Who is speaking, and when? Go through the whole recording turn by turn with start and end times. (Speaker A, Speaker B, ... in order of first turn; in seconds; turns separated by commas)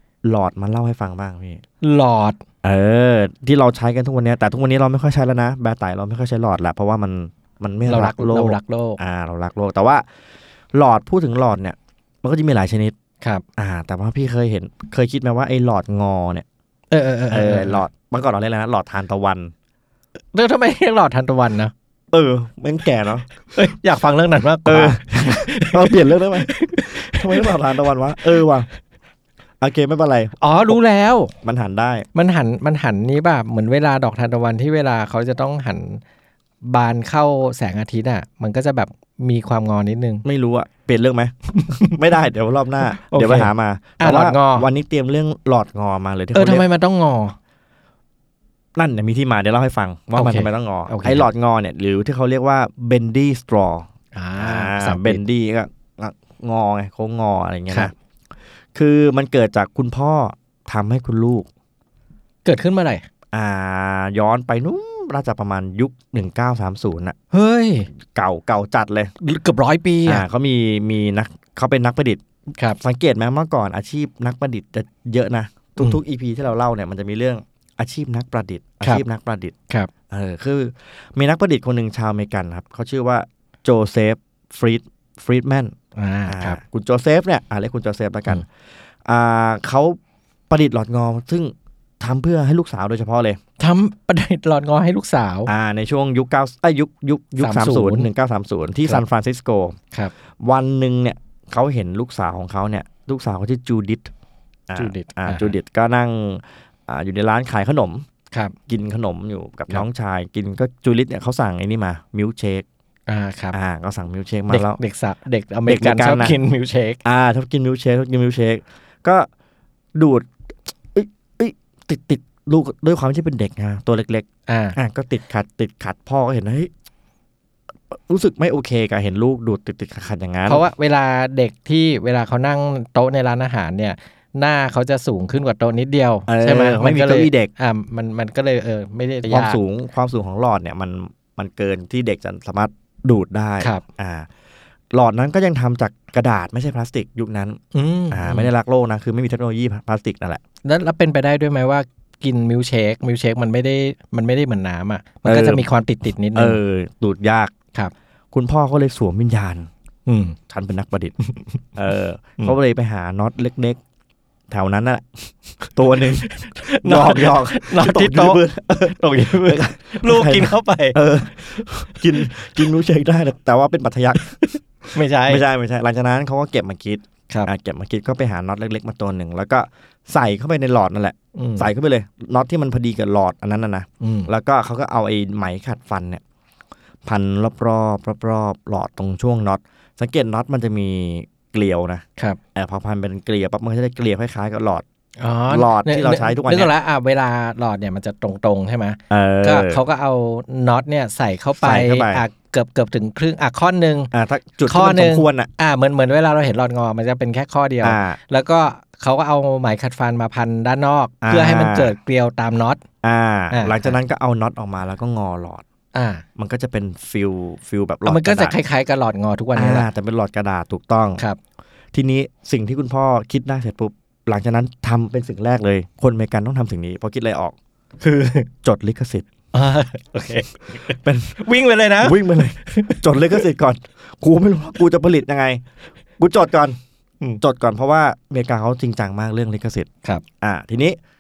Speaker A: 0.2-1.6, Speaker B: 1.8-2.4, Speaker A: 2.6-10.1, Speaker B: 7.8-9.0, Speaker A: 10.7-12.9, Speaker A: 13.6-16.5, Speaker B: 16.9-17.8, Speaker A: 17.3-19.5, Speaker B: 20.3-21.7, Speaker A: 22.1-23.3, Speaker B: 23.4-27.5, Speaker A: 24.7-28.7, Speaker A: 29.6-30.8, Speaker B: 30.4-31.3, Speaker A: 31.4-32.1, Speaker B: 32.1-36.0, Speaker B: 36.6-40.2, Speaker A: 40.2-46.6, Speaker B: 41.7-41.9, Speaker B: 42.9-44.7, Speaker B: 46.3-47.4, Speaker A: 48.8-57.9, Speaker B: 50.1-51.2, Speaker B: 54.1-55.2, Speaker A: 58.8-61.5, Speaker B: 62.5-63.0, Speaker A: 63.3-67.2, Speaker B: 67.3-67.9, Speaker A: 68.1-69.1, Speaker B: 69.2-70.2, Speaker A: 70.0-72.2, Speaker A: 72.8-79.5, Speaker A: 80.1-85.7, Speaker B: 86.0-86.6, Speaker A: 86.3-88.5, Speaker A: 89.1-90.0, Speaker A: 90.5-93.4, Speaker B: 93.6-95.5, Speaker A: 95.5-99.8, Speaker B: 97.4-98.1, Speaker A: 100.4-104.1, Speaker A: 104.7-108.0, Speaker B: 104.8-105.5, Speaker A: 108.7-112.7, Speaker B: 113.1-113.6, Speaker A: 113.5-114.8, Speaker B: 114.5-117.0, Speaker A: 115.7-116.4, Speaker A: 117.0-119.3, Speaker A: 120.0-120.3, Speaker A: 120.9-126.7, Speaker B: 124.5-124.8, Speaker A: 127.9-130.6, Speaker B: 130.5-139.6, Speaker A: 136.3-137.5, Speaker A: 139.2-144.3, Speaker A: 144.9-147.6, Speaker B: 147.7-148.5, Speaker A: 148.1-150.4, Speaker B: 150.6-156.6, Speaker A: 155.3-155.7, Speaker A: 156.3-157.5, Speaker A: 158.3-159.7, Speaker B: 160.1-160.4, Speaker A: 160.5-161.1, Speaker B: 161.2-161.6, Speaker A: 161.8-163.8, Speaker A: 164.5-186.2, Speaker B: 166.2-171.0, Speaker B: 171.6-172.6, Speaker B: 174.2-175.4, Speaker B: 181.3-181.7, Speaker B: 184.0-184.3, Speaker A: 187.1-192.0, Speaker A: 192.6-194.8, Speaker B: 195.2-204.1, Speaker A: 195.5-196.7, Speaker A: 199.1-199.8, Speaker A: 201.6-202.2, Speaker A: 204.1-205.5, Speaker B: 204.7-212.8, Speaker A: 207.8-208.2, Speaker A: 211.2-211.9, Speaker A: 213.0-215.6, Speaker B: 213.5-214.0, Speaker B: 215.9-216.2, Speaker A: 216.4-218.6, Speaker B: 218.1-219.9, Speaker A: 219.6-221.2, Speaker A: 221.9-227.6, Speaker B: 228.0-228.5, Speaker A: 228.6-229.3, Speaker B: 229.5-233.5, Speaker A: 230.9-231.4, Speaker A: 232.0-235.6, Speaker A: 236.2-236.8, Speaker A: 237.4-239.9, Speaker A: 240.4-241.0